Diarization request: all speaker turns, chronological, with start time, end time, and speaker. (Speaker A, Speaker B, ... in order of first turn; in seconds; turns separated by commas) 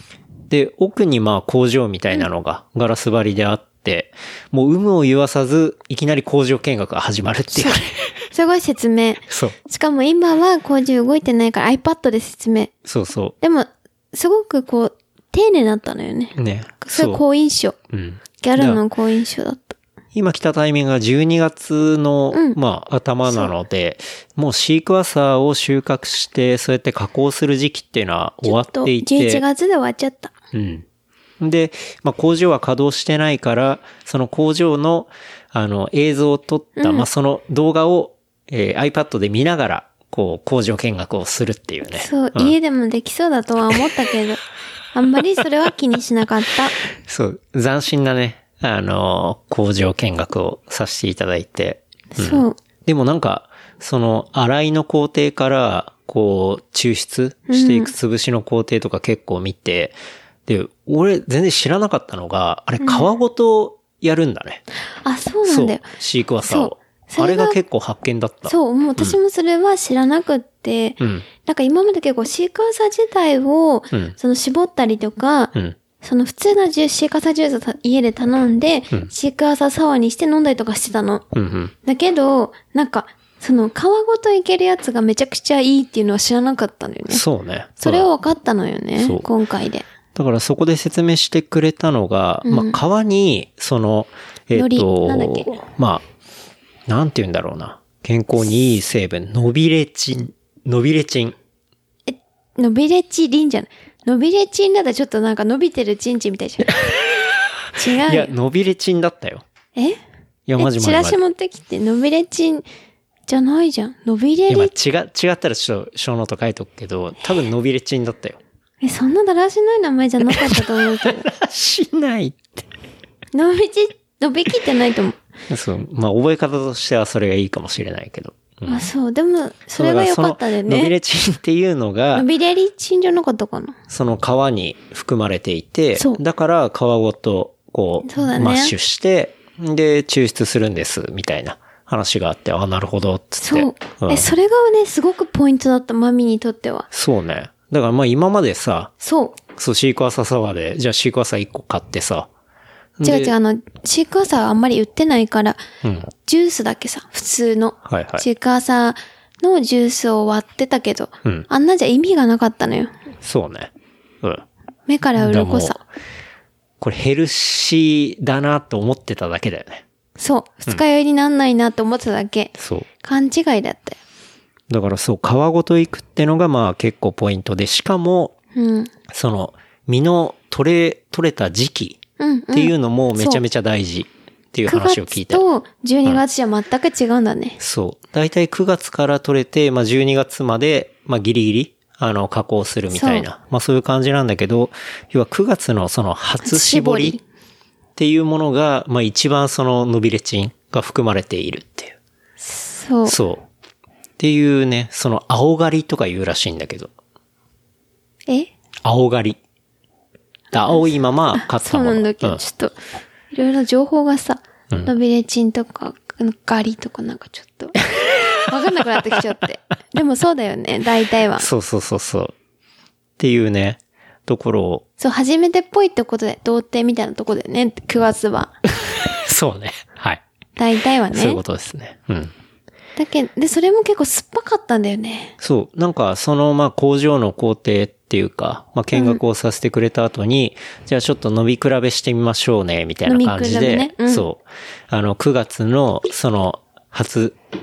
Speaker A: 0.5-8.1, Speaker B: 7.5-12.7, Speaker A: 9.3-9.6, Speaker A: 12.8-13.3, Speaker B: 13.4-17.8, Speaker A: 16.4-17.2, Speaker A: 17.9-18.8, Speaker B: 18.4-19.8, Speaker A: 20.1-29.4, Speaker B: 22.3-22.6, Speaker B: 28.4-30.3, Speaker A: 30.5-30.9, Speaker A: 31.4-42.5, Speaker B: 36.8-37.0, Speaker B: 41.9-46.8, Speaker A: 47.0-60.0, Speaker B: 52.1-52.6, Speaker B: 57.5-57.9, Speaker A: 60.5-64.6, Speaker B: 62.8-63.1, Speaker B: 65.0-65.8, Speaker A: 65.5-69.2, Speaker B: 66.5-67.6, Speaker B: 68.5-81.2, Speaker A: 71.0-71.2, Speaker A: 81.3-81.7, Speaker B: 81.8-87.2, Speaker A: 87.1-88.1, Speaker B: 87.8-89.9, Speaker A: 89.0-89.2, Speaker A: 90.1-96.0, Speaker B: 92.4-92.8, Speaker B: 94.5-95.6, Speaker A: 96.9-101.4, Speaker B: 102.1-106.7, Speaker B: 107.7-108.3, Speaker A: 107.7-109.4, Speaker A: 110.5-111.2, Speaker B: 110.6-112.6, Speaker B: 113.3-114.7, Speaker A: 114.5-118.4, Speaker B: 118.8-121.3, Speaker A: 120.2-122.7, Speaker B: 123.3-125.2, Speaker A: 125.5-128.9, Speaker B: 128.7-130.9, Speaker A: 129.8-132.3, Speaker B: 132.1-133.8, Speaker A: 133.9-144.3, Speaker B: 135.9-136.2, Speaker B: 138.0-138.7, Speaker B: 143.4-146.9, Speaker A: 146.9-148.9, Speaker B: 149.0-149.4, Speaker A: 149.5-152.3, Speaker A: 153.0-153.3, Speaker B: 153.0-155.6, Speaker A: 155.8-156.1, Speaker B: 156.2-162.9, Speaker A: 157.8-158.2, Speaker A: 163.2-164.4, Speaker B: 164.9-165.8, Speaker A: 165.2-165.8, Speaker A: 166.8-169.8, Speaker B: 170.2-174.0, Speaker A: 172.6-172.9, Speaker A: 174.7-178.3, Speaker B: 178.5-178.9, Speaker A: 179.1-182.0, Speaker B: 182.2-183.4, Speaker A: 182.5-185.4, Speaker B: 184.7-187.6, Speaker A: 187.6-197.2, Speaker B: 192.9-193.2, Speaker B: 196.4-197.2, Speaker A: 197.9-201.9, Speaker B: 202.4-203.2, Speaker A: 203.1-203.4, Speaker A: 204.2-206.9, Speaker A: 208.8-209.4, Speaker A: 210.5-212.4, Speaker B: 211.3-212.7, Speaker B: 213.3-217.8, Speaker B: 218.5-221.5, Speaker A: 221.4-222.3, Speaker A: 223.2-224.8, Speaker B: 225.0-228.6, Speaker A: 229.0-230.2, Speaker B: 230.6-231.4, Speaker A: 231.1-232.3, Speaker B: 232.9-235.3, Speaker A: 235.4-247.4, Speaker B: 238.9-239.2, Speaker B: 243.0-244.2